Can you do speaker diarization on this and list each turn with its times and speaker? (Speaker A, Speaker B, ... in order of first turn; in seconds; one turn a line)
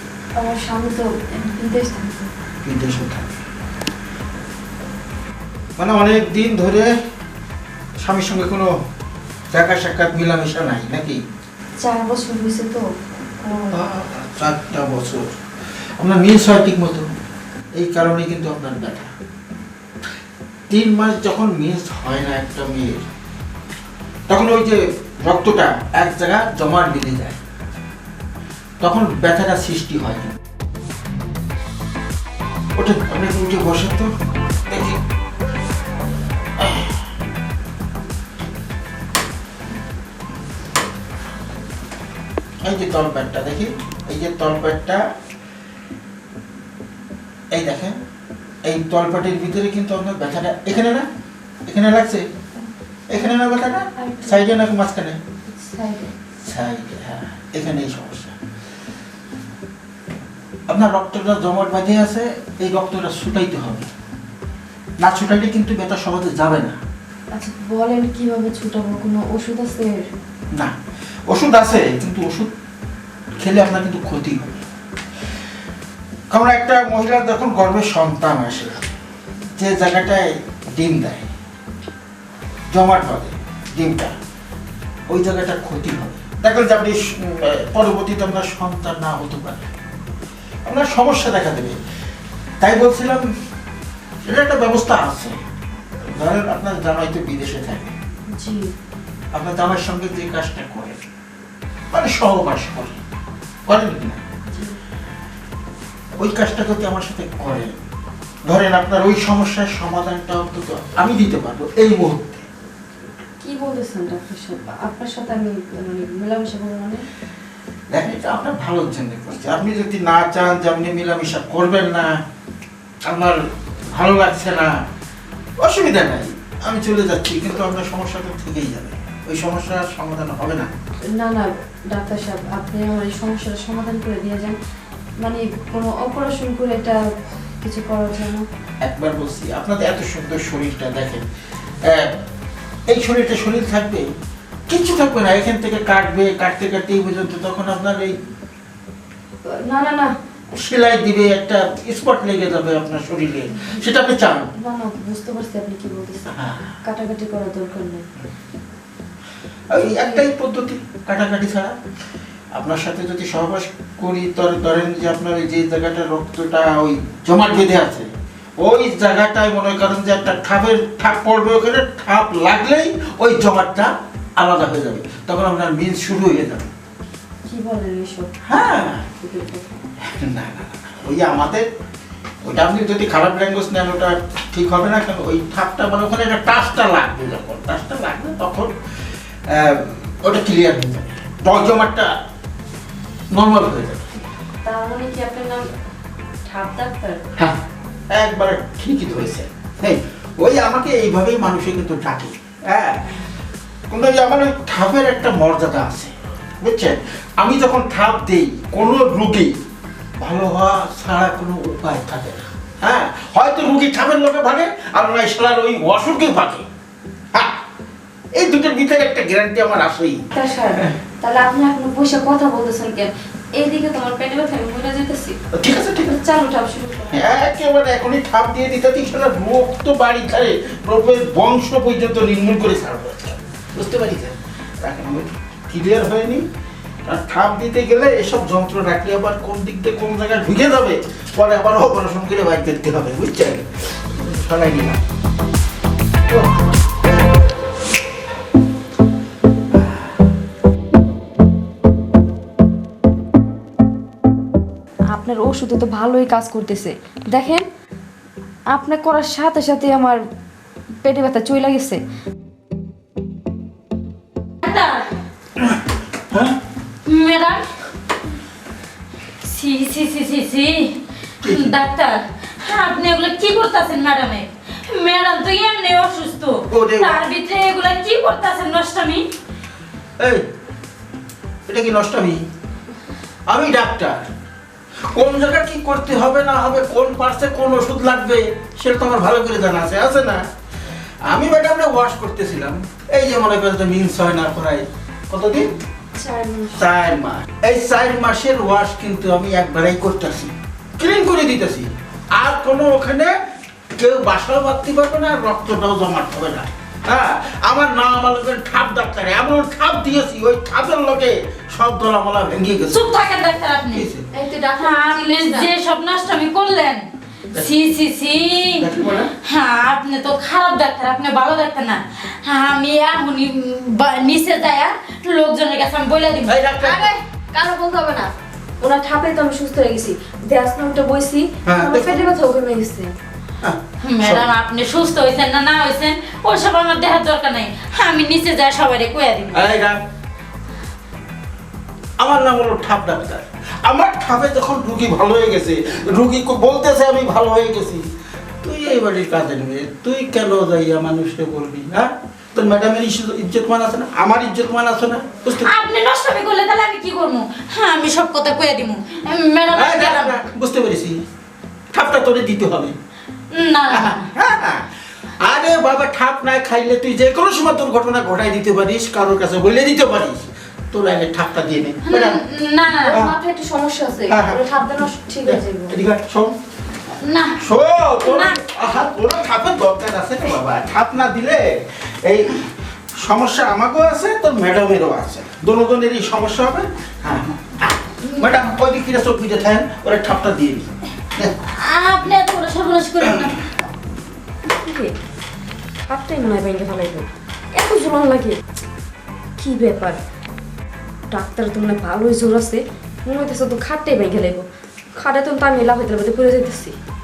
Speaker A: 0.3-2.3
Speaker B: 2.6-3.4
Speaker B: 5.8-6.9
Speaker B: 8.0-8.7
Speaker B: 9.5-11.2
Speaker A: 11.8-12.8
Speaker A: 13.4-13.8
Speaker B: 13.7-17.1
Speaker B: 17.8-19.1
Speaker B: 20.7-23.1
Speaker B: 24.3-27.4
Speaker B: 28.8-30.4
Speaker B: 32.8-34.1
Speaker B: 34.7-35.0
Speaker B: 36.6-37.0
Speaker B: 42.6-45.0
Speaker B: 47.5-48.0
Speaker B: 48.6-51.1
Speaker B: 51.6-52.3
Speaker B: 53.1-55.2
Speaker A: 54.0-54.5
Speaker A: 55.5-56.1
Speaker B: 56.4-58.4
Speaker B: 60.7-63.9
Speaker B: 65.0-66.8
Speaker A: 67.3-70.0
Speaker B: 71.3-72.5
Speaker B: 73.4-74.6
Speaker B: 76.3-78.8
Speaker B: 79.6-81.3
Speaker B: 82.7-84.1
Speaker B: 85.1-89.7
Speaker B: 90.7-91.8
Speaker B: 92.6-93.3
Speaker B: 94.2-95.3
Speaker B: 96.1-97.9
Speaker A: 98.3-98.7
Speaker B: 99.3-101.0
Speaker B: 101.9-103.0
Speaker B: 103.7-104.2
Speaker A: 104.5-104.8
Speaker B: 106.2-107.7
Speaker B: 108.5-112.5
Speaker A: 113.4-117.0
Speaker B: 117.9-122.2
Speaker B: 123.0-124.8
Speaker B: 125.6-130.7
Speaker A: 131.1-134.6
Speaker A: 135.2-137.0
Speaker A: 137.6-138.4
Speaker B: 138.8-141.2
Speaker B: 141.8-142.1
Speaker B: 142.9-144.1
Speaker B: 144.7-148.2
Speaker A: 149.5-150.1
Speaker B: 150.5-154.5
Speaker A: 154.6-156.3
Speaker B: 156.3-156.7
Speaker A: 156.8-158.1
Speaker B: 159.7-161.8
Speaker B: 162.5-176.7
Speaker A: 177.5-178.3
Speaker B: 178.4-179.1
Speaker A: 179.2-179.8
Speaker B: 180.0-181.7
Speaker B: 182.4-188.7
Speaker B: 189.5-192.1
Speaker B: 193.3-194.1
Speaker A: 194.6-195.7
Speaker A: 196.4-197.2
Speaker B: 198.1-203.2
Speaker B: 203.9-209.5
Speaker B: 210.2-216.7
Speaker B: 217.3-217.6
Speaker B: 218.3-220.2
Speaker A: 220.3-225.4
Speaker B: 225.5-226.2
Speaker A: 226.1-227.2
Speaker B: 227.1-236.5
Speaker B: 237.0-245.0
Speaker A: 255.1-257.6
Speaker A: 258.7-260.2
Speaker A: 261.0-262.0
Speaker C: 264.6-265.1
Speaker B: 266.3-266.6
Speaker C: 267.1-267.6
Speaker C: 269.4-279.3
Speaker B: 271.4-271.8
Speaker B: 276.7-277.2
Speaker B: 280.2-280.4
Speaker B: 281.7-282.4
Speaker B: 283.5-284.3
Speaker B: 285.1-290.4
Speaker B: 291.2-295.7
Speaker A: 296.1-296.9
Speaker B: 296.8-303.3
Speaker B: 303.9-313.0
Speaker C: 312.9-314.1
Speaker B: 313.9-314.3
Speaker A: 314.3-315.7
Speaker C: 314.8-318.9
Speaker B: 318.8-319.3
Speaker C: 319.4-326.6
Speaker B: 326.4-327.1
Speaker A: 326.8-333.1
Speaker B: 331.6-332.3
Speaker B: 333.6-334.5
Speaker C: 334.0-339.6
Speaker B: 339.5-340.0
Speaker B: 342.2-348.1
Speaker B: 348.6-355.7
Speaker C: 355.5-360.4
Speaker B: 359.7-361.2
Speaker B: 361.9-362.9
Speaker C: 363.5-364.3
Speaker B: 363.9-364.9
Speaker B: 365.4-372.4
Speaker C: 372.0-373.2
Speaker A: 373.0-375.9
Speaker B: 373.1-373.3
Speaker B: 374.3-374.7
Speaker B: 375.4-376.5
Speaker C: 377.1-377.6
Speaker B: 377.6-391.5
Speaker C: 378.2-378.6
Speaker C: 391.6-393.7
Speaker B: 393.2-393.5
Speaker A: 394.7-395.1
Speaker A: 396.1-398.6
Speaker A: 399.6-400.2
Speaker A: 401.3-407.0